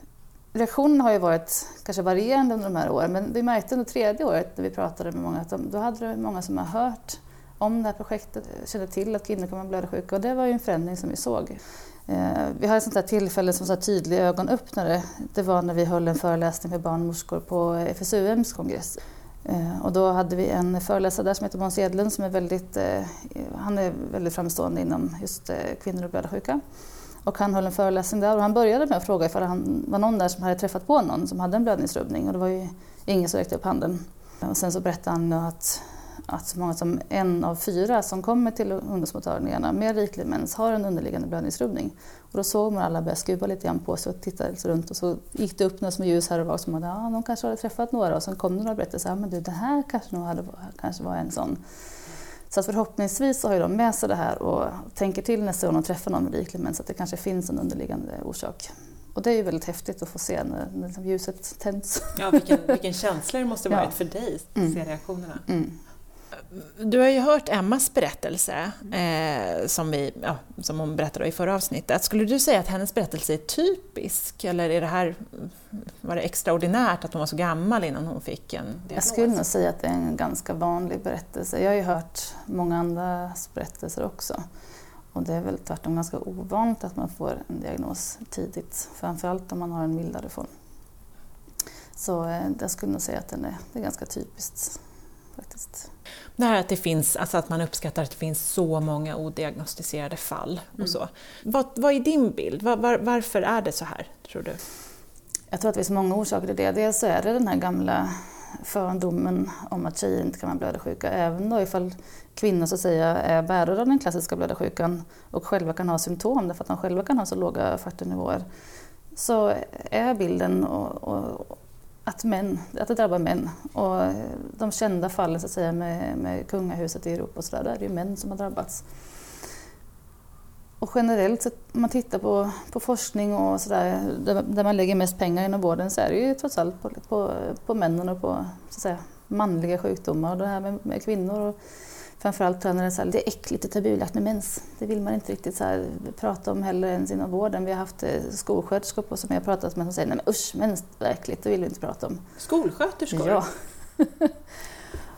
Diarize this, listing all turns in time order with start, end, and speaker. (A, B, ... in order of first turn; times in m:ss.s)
0:00.5-0:26.6 A
0:27.2-0:51.6 A
0:52.5-1:02.7 A
1:02.2-1:05.4 B
1:05.5-1:05.8 A
1:06.5-1:19.4 B
1:18.9-1:24.4 A
1:25.1-1:30.5 A
1:32.0-1:34.8 A
1:35.4-1:35.9 A
1:36.4-1:44.6 B
1:45.5-1:58.4 A
1:59.1-2:08.8 A
2:10.8-2:21.6 A
2:22.2-2:32.2 A
2:32.4-2:33.4 B
2:33.1-2:34.3 A